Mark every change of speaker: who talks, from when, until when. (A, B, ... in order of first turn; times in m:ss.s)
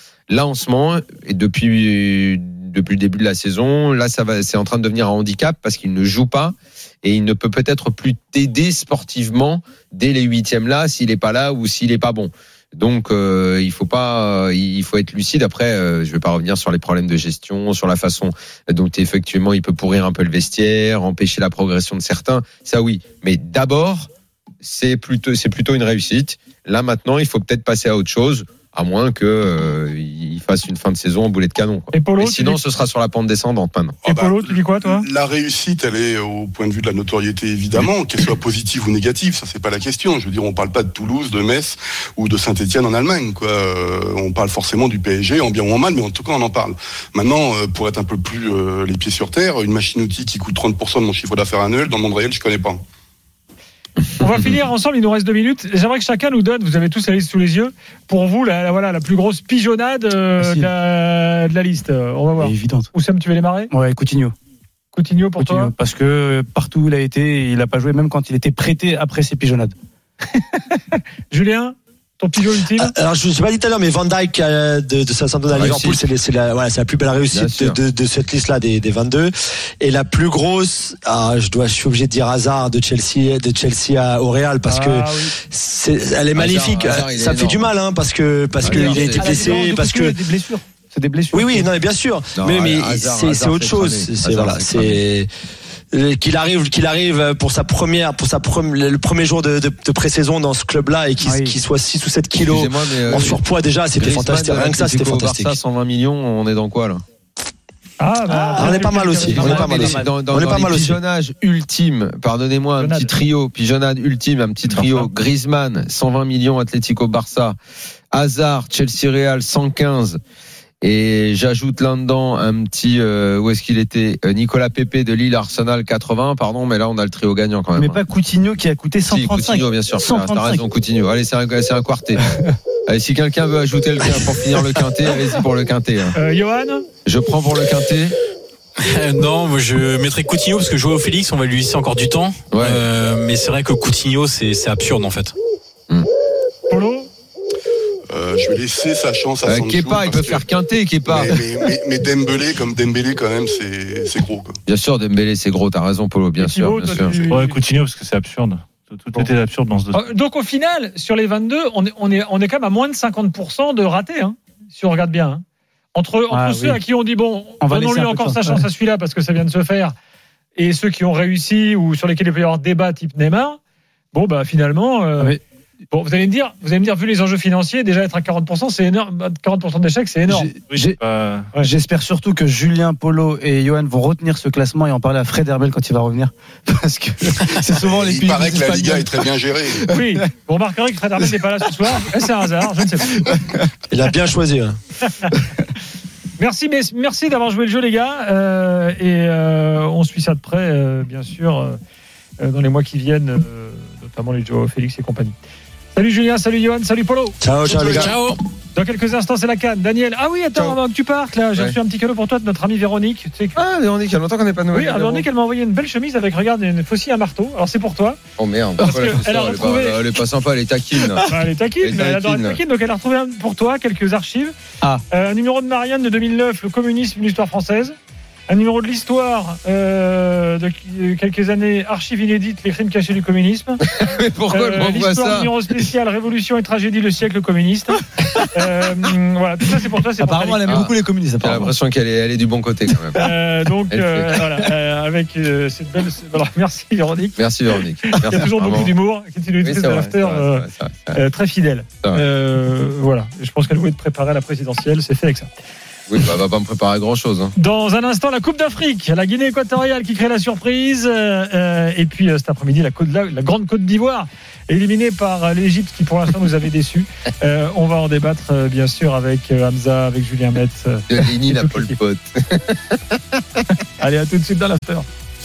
0:00.3-0:24.1 A
0:24.6-0:34.0 A
0:31.9-0:32.6 B
0:34.0-0:52.8 C
0:34.0-0:35.0 B
0:54.2-1:03.7 B
1:00.4-1:00.7 D
1:02.4-1:02.9 D
1:03.7-1:04.3 D
1:04.9-1:05.7 B
1:05.4-1:09.7 D
1:11.3-1:12.9 B
1:12.7-1:30.2 E
1:15.5-1:16.0 A
1:17.3-1:17.8 A
1:24.7-1:25.3 D
1:26.3-1:27.8 A
1:28.6-1:29.4 A
1:28.6-1:31.7 D
1:31.3-1:35.3 E
1:32.3-1:35.0 A
1:35.9-1:45.6 E
1:41.2-1:41.5 D
1:42.4-1:43.4 A
1:43.9-1:47.0 A
1:48.0-1:49.7 B
1:48.3-1:50.1 D
1:48.6-1:51.0 E
1:49.4-1:57.6 A
1:52.8-1:53.1 B
1:54.7-1:55.1 F
1:58.1-2:00.2 A
2:00.8-2:08.0 A
2:07.8-2:10.6 D
2:09.1-2:12.2 A
2:12.9-2:16.1 A
2:16.1-2:16.8 B
2:17.0-2:18.2 A
2:18.9-2:25.3 G
2:22.5-2:22.8 A
2:26.7-2:27.1 B
2:28.1-2:30.4 C
2:29.4-2:31.4 A
2:31.0-2:34.6 C
2:34.6-2:37.2 A
2:36.4-2:37.6 B
2:37.3-2:40.1 F
2:39.9-2:45.4 B
2:45.9-2:49.9 B
2:46.3-2:46.8 D
2:47.6-2:48.6 D
2:50.6-2:53.6 B
2:54.1-2:55.4 B
2:55.9-3:00.5 B
3:00.3-3:01.0 D
3:00.7-3:01.5 F
3:01.6-3:09.2 D
3:07.8-3:09.8 C
3:09.9-3:13.2 B
3:13.9-3:14.8 E
3:16.4-3:21.8 B
3:22.4-3:25.4 B
3:25.9-3:27.4 B
3:27.4-3:28.2 E
3:27.8-3:28.4 G
3:28.7-3:33.6 B
3:33.5-3:35.3 A
3:34.7-3:38.2 B
3:38.4-3:42.6 A
3:38.8-3:40.0 B
3:41.2-3:44.5 B
3:45.1-3:47.9 B
3:48.5-3:53.8 B
3:53.8-3:55.6 A
3:54.5-4:00.9 B
4:00.2-4:01.7 D
4:00.6-4:03.2 A
4:03.1-4:07.4 B
4:03.9-4:04.3 A
4:07.4-4:08.9 A
4:08.0-4:15.5 B
4:09.6-4:11.2 A
4:16.1-4:17.5 A
4:17.5-4:32.0 B
4:31.1-4:33.2 A
4:34.0-4:35.0 B